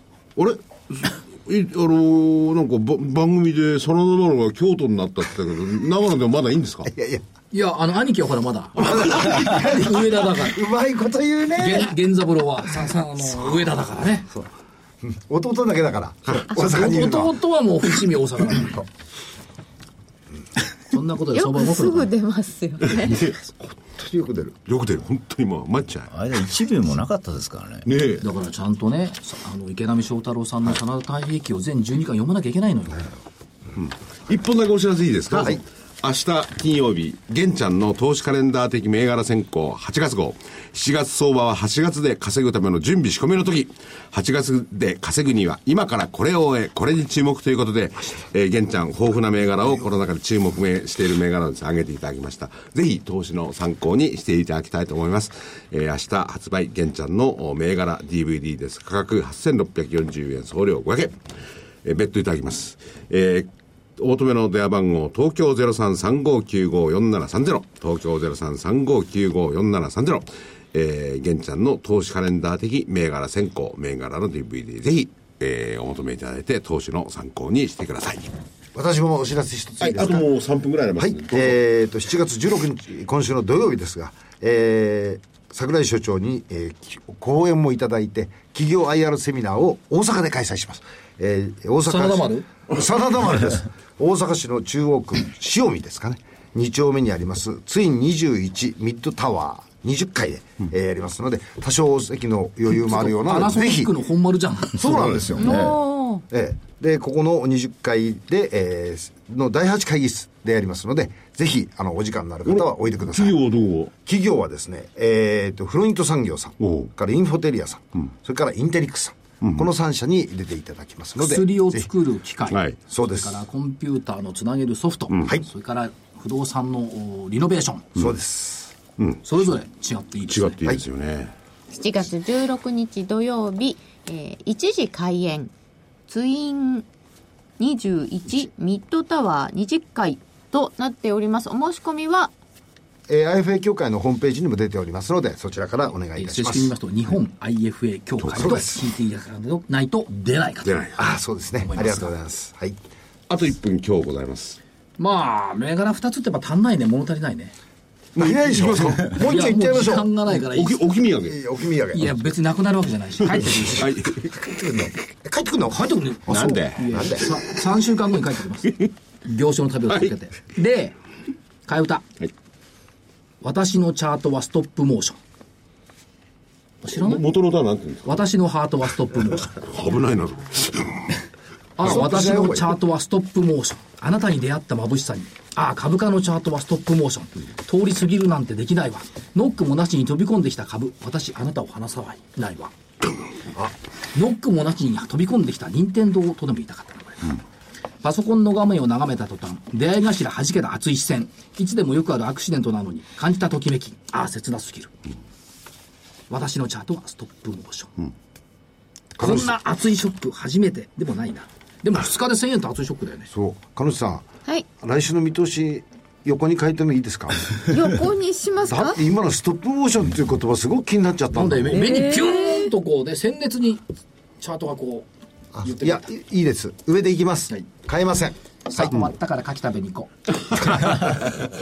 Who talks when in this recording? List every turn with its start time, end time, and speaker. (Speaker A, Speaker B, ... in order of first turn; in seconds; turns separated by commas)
Speaker A: 0.3-6.9, Speaker B: 6.9-7.2, Speaker C: 7.5-10.6, Speaker B: 8.8-11.9, Speaker C: 11.6-14.3, Speaker B: 15.0-17.3, Speaker C: 16.5-18.9, Speaker C: 20.9-22.1, Speaker D: 21.3-23.2, Speaker A: 22.9-23.5, Speaker B: 23.8-24.6, Speaker A: 24.7-26.1, Speaker E: 26.1-27.9, Speaker A: 27.9-28.3, Speaker C: 28.2-33.1, Speaker A: 33.8-61.2, Speaker B: 35.3-35.6, Speaker A: 61.8-78.3, Speaker B: 78.7-80.3, Speaker A: 79.8-81.6, Speaker B: 81.0-103.9, Speaker C: 91.8-92.5, Speaker C: 102.7-105.4, Speaker B: 104.8-105.8, Speaker D: 105.3-106.2, Speaker E: 105.4-105.8, Speaker B: 106.3-113.4, Speaker A: 112.5-113.9, Speaker B: 114.0-121.9, Speaker A: 116.6-116.9, Speaker C: 121.2-127.9, Speaker A: 122.5-122.8, Speaker B: 122.9-123.4, Speaker B: 128.0-128.7, Speaker C: 129.2-130.6, Speaker A: 130.3-131.3, Speaker D: 131.7-135.5, Speaker D: 136.1-136.8, Speaker D: 137.6-142.3, Speaker B: 143.1-146.7, Speaker C: 146.2-150.9, Speaker A: 148.2-148.5, Speaker B: 148.4-148.8, Speaker A: 150.6-151.0, Speaker B: 150.9-152.8, Speaker C: 151.6-152.1, Speaker A: 153.3-154.6, Speaker C: 155.0-157.6, Speaker A: 158.1-159.2, Speaker B: 158.2-160.1, Speaker C: 159.0-160.8, Speaker A: 160.3-161.4, Speaker B: 161.3-162.1, Speaker C: 161.9-163.8, Speaker A: 163.8-164.3, Speaker B: 164.0-167.2, Speaker C: 165.7-171.0, Speaker A: 166.3-167.0, Speaker C: 171.7-172.1, Speaker C: 173.4-175.2, Speaker C: 176.8-177.2, Speaker A: 176.9-178.2, Speaker C: 178.1-179.6, Speaker A: 179.5-181.2, Speaker C: 181.8-192.7, Speaker B: 181.8-182.8, Speaker C: 194.1-197.4, Speaker C: 198.0-204.9, Speaker C: 206.3-207.9, Speaker B: 209.2-209.5, Speaker C: 209.2-213.3, Speaker B: 213.3-214.2, Speaker B: 214.8-217.7, Speaker D: 217.7-219.0, Speaker B: 218.7-221.8, Speaker C: 221.3-223.8, Speaker D: 221.8-222.7, Speaker C: 224.4-225.1, Speaker B: 225.5-228.9, Speaker C: 225.6-226.1, Speaker C: 228.7-230.1, Speaker A: 230.5-231.0